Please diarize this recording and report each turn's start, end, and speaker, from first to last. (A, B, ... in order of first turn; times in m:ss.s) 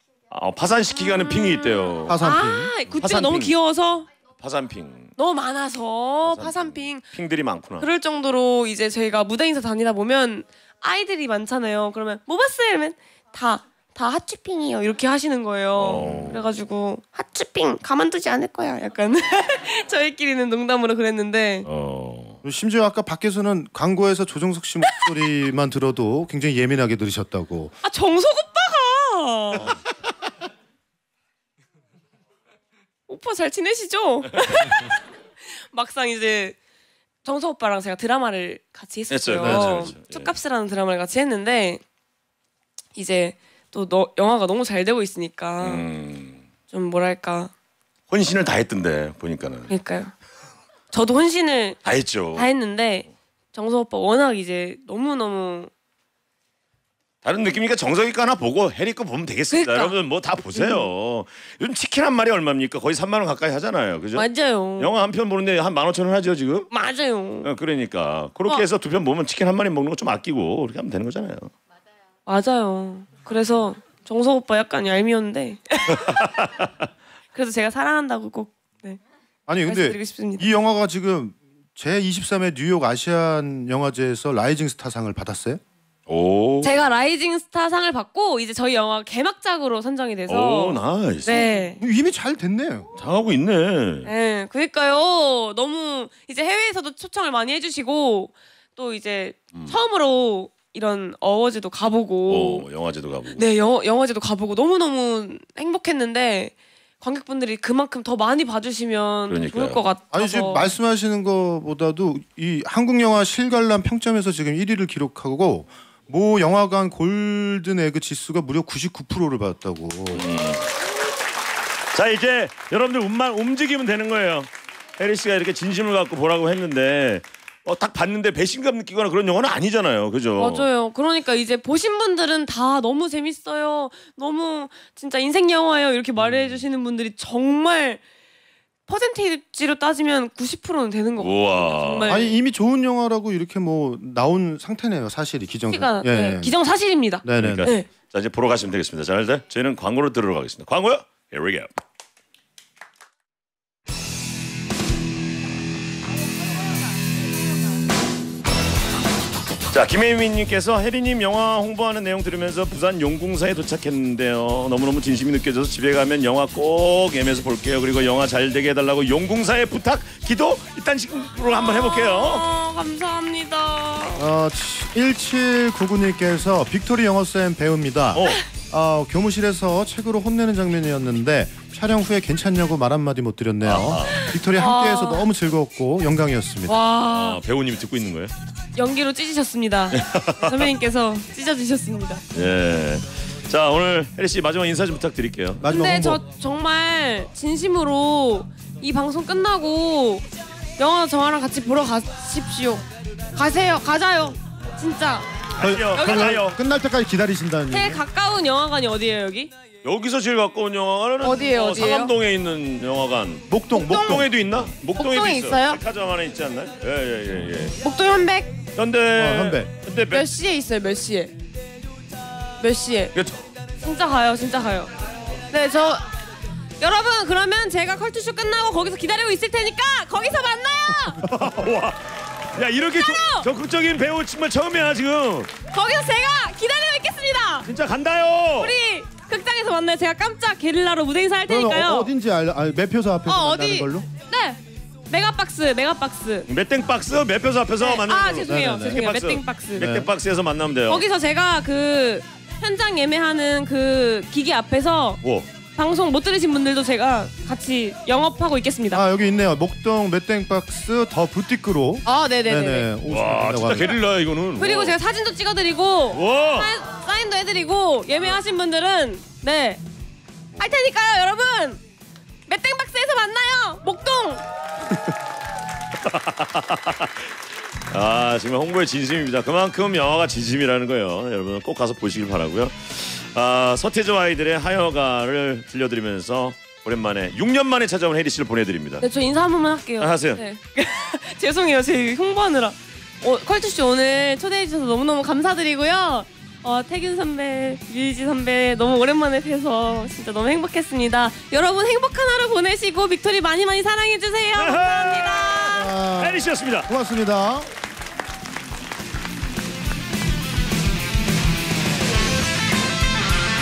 0:00.3-0:02.2 A
0:01.0-0:04.1 B
0:02.1-0:02.8 C
0:02.9-0:03.5 A
0:04.4-0:05.1 A
0:05.2-0:07.1 B
0:06.2-0:07.9 A
0:07.8-0:21.7 B
0:15.8-0:16.4 A
0:15.9-0:16.4 C
0:21.6-0:22.4 A
0:22.4-0:27.8 C
0:27.8-0:29.8 B
0:33.1-0:36.6 B
0:37.2-0:41.8 B
0:39.1-0:40.3 A
0:39.4-0:39.9 C
0:43.0-0:45.9 B
0:45.6-0:46.4 A
0:46.7-0:47.5 B
0:48.1-0:49.7 A
0:49.7-0:50.1 B
0:50.9-0:51.8 B
0:51.8-0:52.5 A
0:52.3-0:55.7 B
0:57.2-1:06.7 A
0:59.5-1:00.0 B
1:00.6-1:00.8 B
1:04.2-1:05.0 B
1:06.7-1:07.5 B
1:07.4-1:11.5 A
1:12.3-1:16.2 B
1:15.9-1:16.7 A
1:17.3-1:19.0 B
1:19.5-1:25.6 C
1:19.6-1:20.5 B
1:26.1-1:26.8 A
1:26.6-1:31.8 B
1:30.3-1:31.5 A
1:31.8-1:32.9 C
1:33.0-1:34.1 A
1:34.0-1:42.6 B
1:42.3-1:43.5 A
1:43.4-1:50.7 B
1:49.3-1:49.8 A
1:50.1-2:00.3 C
2:00.1-2:00.7 A
2:01.9-2:10.7 A
2:10.4-2:18.0 B
2:18.9-2:22.4 B
2:21.2-2:22.2 A
2:22.1-2:26.6 C
2:25.7-2:27.9 B
2:27.2-2:27.7 C
2:27.4-2:31.7 A
2:39.7-2:52.5 A
2:51.6-2:54.2 B
2:54.2-3:06.8 C
2:58.1-2:58.4 A
3:03.6-3:04.3 A
3:04.2-3:05.3 B
3:06.7-3:07.4 B
3:07.1-3:08.3 A
3:08.8-3:12.2 B
3:09.9-3:10.7 A
3:12.3-3:15.6 A
3:15.6-3:16.2 C
3:15.7-3:20.3 B
3:20.8-3:25.3 B
3:25.6-3:26.6 A
3:25.6-3:28.0 C
3:26.0-3:26.4 B
3:27.7-3:29.5 B
3:29.8-3:37.8 A
3:31.2-3:32.1 B
3:33.5-3:34.3 C
3:33.8-3:34.2 B
3:35.0-3:35.8 B
3:37.8-3:38.6 B
3:38.8-3:40.3 A
3:39.2-3:39.7 C
3:40.1-3:41.4 B
3:42.6-3:43.1 B
3:43.2-3:43.4 A
3:43.8-3:44.9 B
3:45.5-3:46.1 B
3:46.8-3:51.2 B
3:51.2-3:55.5 A
3:52.9-3:53.5 B
3:55.7-3:57.7 B
3:57.6-3:58.7 A
3:58.6-4:02.1 B
4:01.5-4:04.1 C
4:03.3-4:06.5 B
4:06.5-4:11.0 A
4:07.8-4:09.9 B
4:08.5-4:09.1 C
4:09.8-4:10.1 C
4:10.9-4:15.2 B
4:15.2-4:15.5 A
4:15.8-4:19.0 B
4:18.9-4:24.0 C
4:22.1-4:22.9 B
4:23.1-4:25.0 A
4:24.6-4:29.8 B
4:26.1-4:26.7 A
4:30.6-4:31.8 B
4:32.5-4:34.4 B
4:35.9-4:37.3 A
4:37.9-4:49.1 A
4:49.0-5:05.9 B
4:50.0-4:50.4 A
5:04.6-5:06.9 A
5:05.7-5:07.7 C